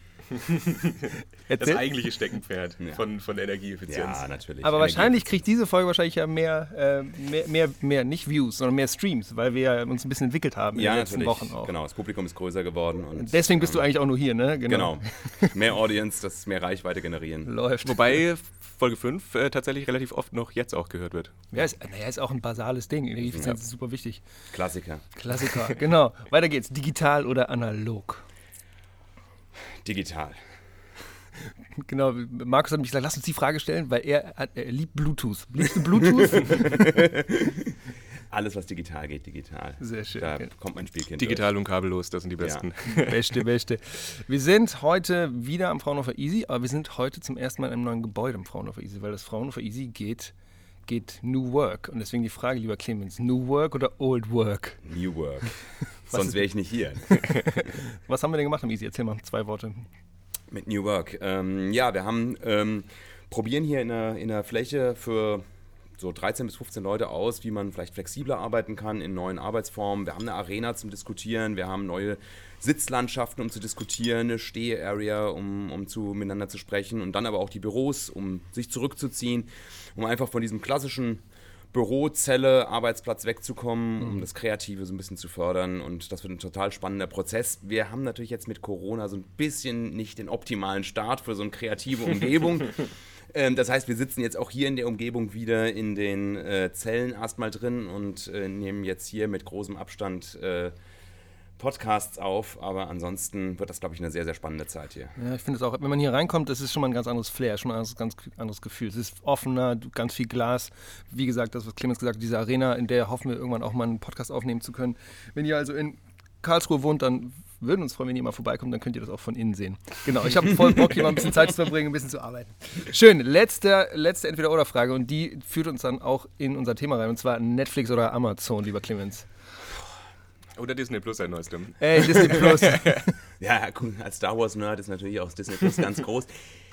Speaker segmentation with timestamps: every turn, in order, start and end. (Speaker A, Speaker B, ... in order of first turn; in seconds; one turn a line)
Speaker A: 0.3-4.2
Speaker B: 1.5-1.8
Speaker C: 3.9-5.4
Speaker B: 4.6-11.7
Speaker C: 10.7-13.8
Speaker B: 13.2-15.6
Speaker C: 14.7-17.5
Speaker B: 17.4-18.1
Speaker A: 17.8-21.5
Speaker B: 21.5-24.2
Speaker C: 23.2-23.6
Speaker C: 24.5-25.0
Speaker B: 25.1-28.2
Speaker C: 29.8-30.4
Speaker B: 31.8-37.0
Speaker C: 36.0-37.8
Speaker C: 38.3-41.5
Speaker B: 39.8-40.5
Speaker A: 41.1-43.4
Speaker C: 42.4-42.6
Speaker B: 42.9-50.3
Speaker B: 50.9-54.8
Speaker C: 54.8-57.7
Speaker B: 56.1-56.3
Speaker B: 57.1-59.9
Speaker C: 60.5-65.4
Speaker C: 66.0-100.7
Speaker C: 101.6-105.1
Speaker B: 105.2-129.3
Speaker A: 130.5-133.0
Speaker B: 131.8-133.1
Speaker C: 133.4-136.4